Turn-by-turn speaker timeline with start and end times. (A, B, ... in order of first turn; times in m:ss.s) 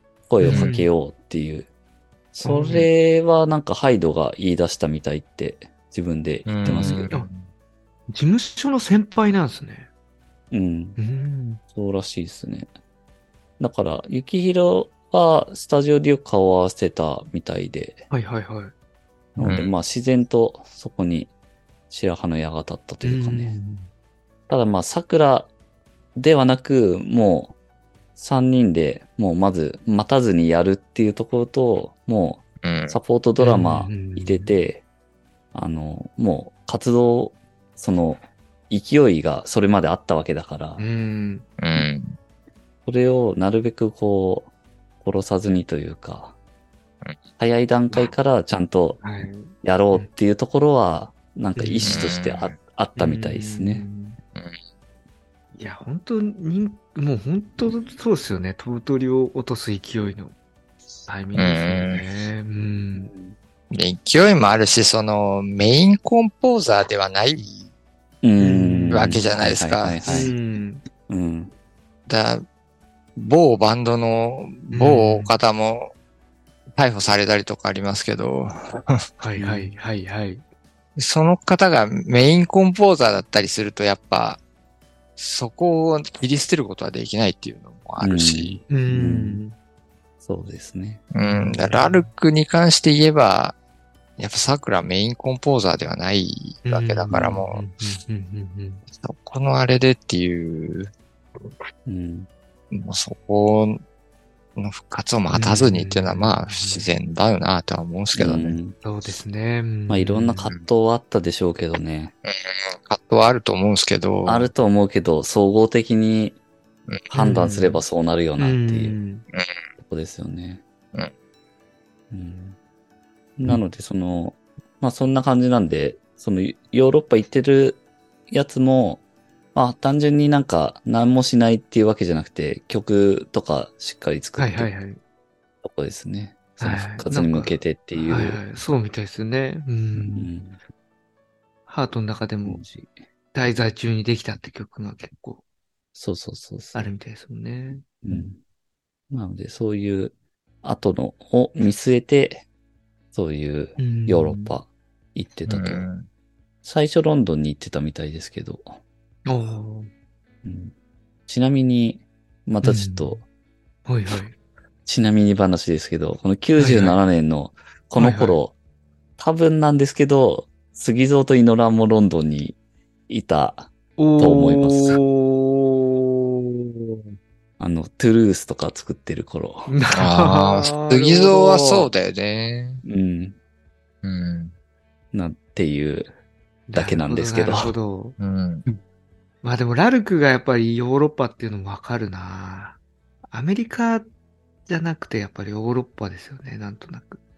0:00.3-0:01.7 A
0:00.4-0:00.9 B
0:00.5-0:00.7 C
0:02.3-0:07.1 A
0:02.4-0:02.9 B
0:06.5-0:07.4 C
0:06.7-0:07.3 B
0:08.1-0:09.9 B
0:10.5-0:11.0 A
0:11.0-0:11.6 B
0:11.7-0:12.7 A
0:13.6-0:18.1 A
0:18.1-0:18.7 B
0:19.4-0:21.3 A
0:19.4-0:19.7 C
0:21.9-0:23.6 A
0:23.0-0:23.9 B
0:24.5-0:25.5 A
0:26.2-0:27.6 A
0:28.2-0:34.8 A
0:32.6-0:33.0 C
0:33.4-0:34.5 B
0:35.5-0:40.9 A
0:40.8-0:41.5 B
0:41.6-0:42.2 C
0:42.9-0:44.5 A
0:45.0-0:46.4 A
0:47.4-0:53.9 A
0:49.0-0:50.1 B
0:51.6-0:52.0 B
0:51.9-0:52.6 C
0:53.0-0:54.2 B
0:55.6-1:00.3 B
1:01.1-1:03.1 B
1:01.4-1:02.0 C
1:03.0-1:03.4 A
1:03.7-1:07.7 C
1:08.2-1:10.3 A
1:08.4-1:09.2 B
1:08.9-1:10.3 C
1:10.0-1:10.8 B
1:11.1-1:11.5 A
1:12.1-1:12.4 C
1:13.2-1:15.9 C
1:14.7-1:15.4 B
1:16.8-1:19.0 C
1:19.2-1:20.4 B
1:19.4-1:19.7 A
1:21.0-1:24.4 C
1:25.2-1:28.6 C
1:28.0-1:29.4 A
1:28.7-1:29.6 B
1:30.2-1:31.0 A
1:31.1-1:33.6 C
1:31.3-1:32.1 B
1:34.2-1:37.6 C
1:36.6-1:38.8 B
1:38.9-1:40.9 C
1:41.9-1:42.3 A
1:42.7-1:43.8 C
1:44.6-1:48.6 C
1:45.3-1:46.9 B
1:48.2-1:48.8 A
1:48.8-1:50.5 B
1:49.9-1:52.1 A
1:52.3-1:54.5 C
1:54.3-1:56.4 A
1:57.1-1:57.8 B
1:57.1-1:59.0 A
1:58.4-1:59.2 B
1:59.8-2:00.6 A
2:02.1-2:02.6 A
2:03.4-2:09.0 A
2:09.6-2:14.7 A
2:14.4-2:15.0 B
2:15.6-2:18.4 A
2:16.6-2:20.3 B
2:20.0-2:20.6 A
2:21.7-2:22.6 B
2:22.4-2:23.0 A
2:23.3-2:25.4 B
2:26.0-2:26.9 A
2:26.7-2:28.2 B
2:28.0-2:28.4 A
2:29.1-2:32.5 A
2:33.1-2:35.9 A
2:33.8-2:34.6 B
2:35.5-2:36.1 C
2:36.6-2:38.8 A
2:39.3-2:39.9 B
2:40.4-2:40.7 A
2:41.3-2:43.2 A
2:42.6-2:43.2 B
2:43.9-2:44.4 B
2:44.9-2:48.5 A
2:46.6-2:47.0 B
2:48.0-2:48.4 B
2:49.2-2:52.6 A
2:53.1-2:55.0 A
2:54.0-2:56.6 B
2:57.6-2:59.8 A
2:59.7-3:01.9 B
2:59.9-3:02.8 C
3:02.8-3:03.4 A
3:04.0-3:04.5 C
3:05.1-3:06.1 A
3:06.7-3:08.2 B
3:06.7-3:07.8 A
3:08.2-3:08.7 C
3:09.4-3:12.8 B
3:13.3-3:14.1 B
3:14.7-3:17.2 B